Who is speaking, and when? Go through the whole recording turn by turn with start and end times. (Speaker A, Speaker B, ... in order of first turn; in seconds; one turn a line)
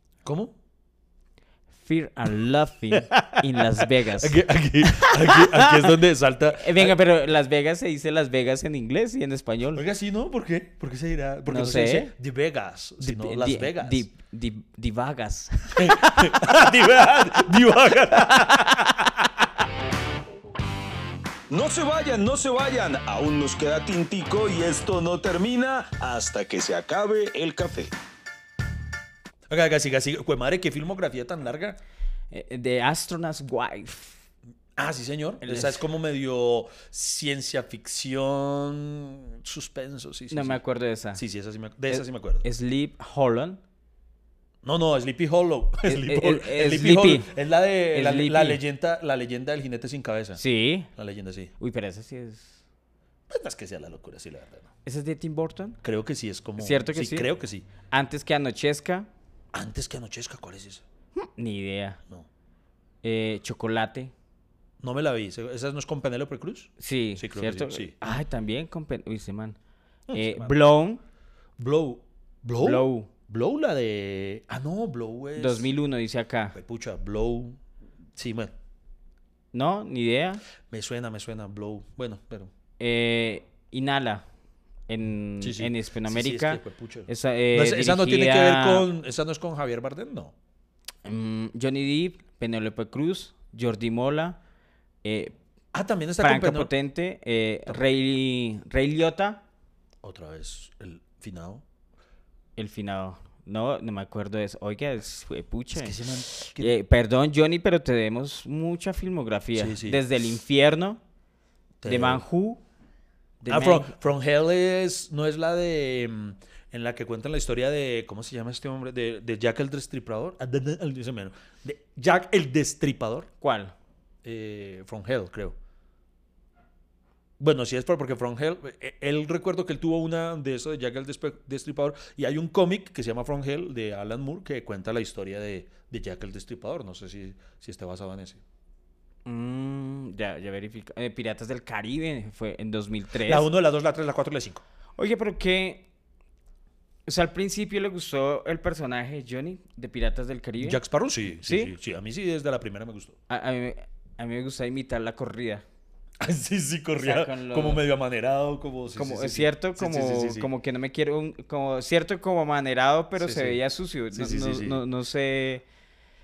Speaker A: 0.2-0.6
Speaker B: 1.8-5.9
Speaker A: 3.0-7.0
Speaker B: 6.6-9.8
Speaker A: 9.8-14.0
Speaker B: 11.5-12.1
Speaker B: 13.0-16.6
Speaker A: 15.8-19.2
Speaker B: 18.2-19.1
Speaker C: 21.5-27.9
Speaker A: 29.5-31.8
Speaker B: 32.3-34.2
Speaker A: 34.8-40.6
Speaker B: 35.4-35.8
Speaker B: 40.3-41.2
Speaker A: 41.2-42.5
Speaker B: 41.9-43.6
Speaker A: 44.6-50.4
Speaker B: 45.9-47.3
Speaker B: 47.9-48.6
Speaker B: 50.4-50.9
Speaker A: 51.0-51.5
Speaker B: 51.6-52.6
Speaker A: 53.3-54.7
Speaker B: 54.9-55.8
Speaker A: 55.8-57.7
Speaker B: 56.6-57.3
Speaker B: 57.9-59.1
Speaker A: 59.5-60.8
Speaker B: 61.1-62.0
Speaker B: 63.0-64.1
Speaker A: 64.8-68.0
Speaker B: 66.8-69.6
Speaker A: 70.1-70.5
Speaker B: 70.1-71.0
Speaker A: 71.6-75.7
Speaker B: 72.6-73.1
Speaker B: 75.4-76.5
Speaker A: 76.5-77.6
Speaker A: 78.2-78.5
Speaker B: 79.5-80.4
Speaker A: 80.7-82.5
Speaker B: 82.8-84.3
Speaker B: 84.9-88.9
Speaker A: 85.4-90.3
Speaker B: 91.0-94.4
Speaker B: 95.0-95.4
Speaker A: 95.7-96.7
Speaker B: 96.2-99.4
Speaker A: 100.0-101.6
Speaker B: 102.6-111.0
Speaker A: 105.8-106.8
Speaker A: 109.6-110.0
Speaker A: 111.8-112.2
Speaker B: 111.8-112.6
Speaker B: 113.4-113.9
Speaker A: 113.5-123.3
Speaker B: 123.4-123.7
Speaker A: 124.2-125.6
Speaker A: 127.4-138.4
Speaker B: 139.3-143.5
Speaker A: 143.2-144.6
Speaker B: 145.0-145.9
Speaker B: 147.1-150.8
Speaker A: 150.6-153.2
Speaker B: 151.4-151.7
Speaker B: 153.3-155.6
Speaker A: 156.2-160.5
Speaker B: 157.0-157.8
Speaker B: 158.9-165.6
Speaker A: 163.2-163.6
Speaker A: 164.1-164.8